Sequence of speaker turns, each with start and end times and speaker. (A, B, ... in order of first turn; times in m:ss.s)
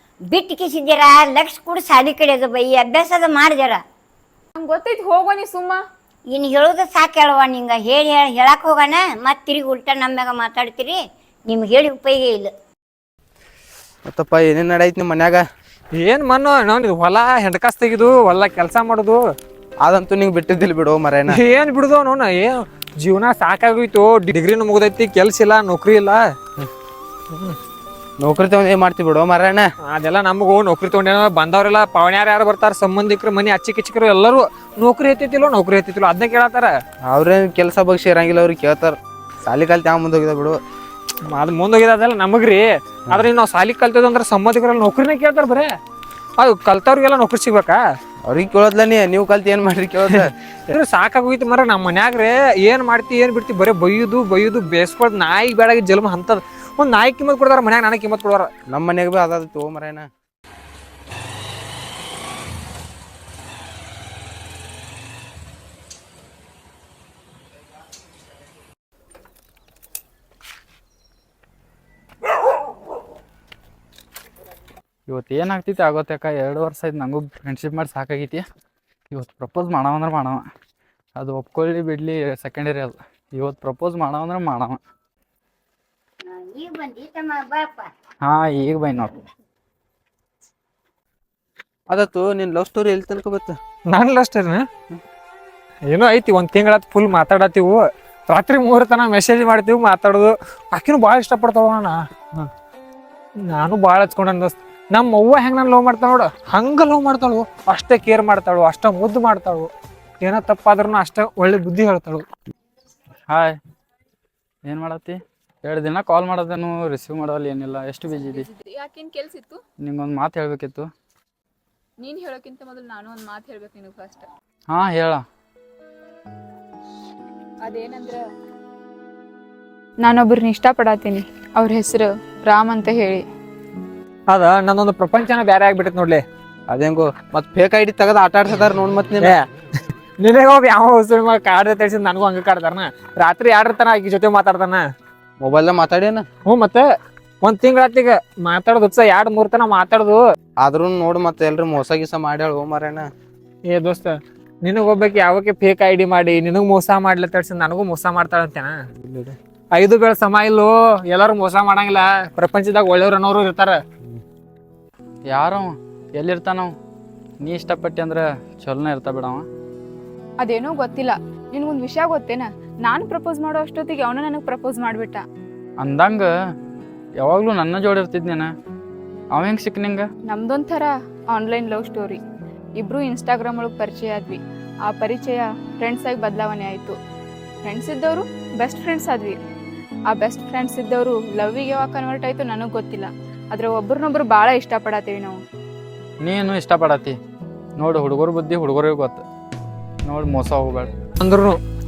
0:00.3-0:03.8 A
0:04.6-0:05.8 B
0:06.3-0:12.5 A
0:14.1-0:15.4 C
0:16.0-0:19.2 D
0:19.8-0:21.4 C
0:21.3-0:26.2 D
0:27.3-0:27.6 D
0:28.2-0:29.7 C
0:29.9-0:36.8 D
0:37.0-0:40.6 C
0:41.3-0:45.8 D
0:46.4-0:47.8 D
0:48.2-0:50.3 C
0:50.1-0:58.5 D
0:58.7-1:00.1 C
1:15.1-1:18.4 E
1:19.1-1:20.4 E
1:21.2-1:24.8 E
1:26.3-1:27.9 A
1:28.2-1:29.2 E
1:31.9-1:33.6 C
1:33.9-1:34.7 D
1:35.9-1:42.5 D
1:43.5-1:49.7 D
1:50.2-1:52.2 D
1:53.3-1:53.6 E
1:54.6-1:58.5 E
1:58.2-1:59.6 B
1:59.8-2:00.9 E
2:02.0-2:04.3 B
2:04.7-2:05.2 E
2:07.6-2:08.2 B
2:10.0-2:13.2 B
2:14.3-2:16.2 D
2:16.7-2:19.3 C
2:20.2-2:24.8 D
2:25.4-2:26.3 C
2:26.5-2:26.8 D
2:27.4-2:30.2 D
2:30.6-2:33.1 C
2:33.7-2:38.7 D
2:39.0-2:39.4 C
2:39.7-2:43.8 D
2:45.3-2:46.8 E
2:47.4-2:49.5 E
2:50.4-2:55.2 B
2:55.8-2:56.3 E
2:57.2-2:58.5 E
2:59.3-3:00.1 E
3:00.3-3:02.2 B
3:02.8-3:07.0 B
3:07.6-3:09.4 B
3:10.1-3:15.4 B
3:16.2-3:17.1 E
3:17.8-3:19.2 E
3:20.0-3:20.9 E
3:21.2-3:21.6 D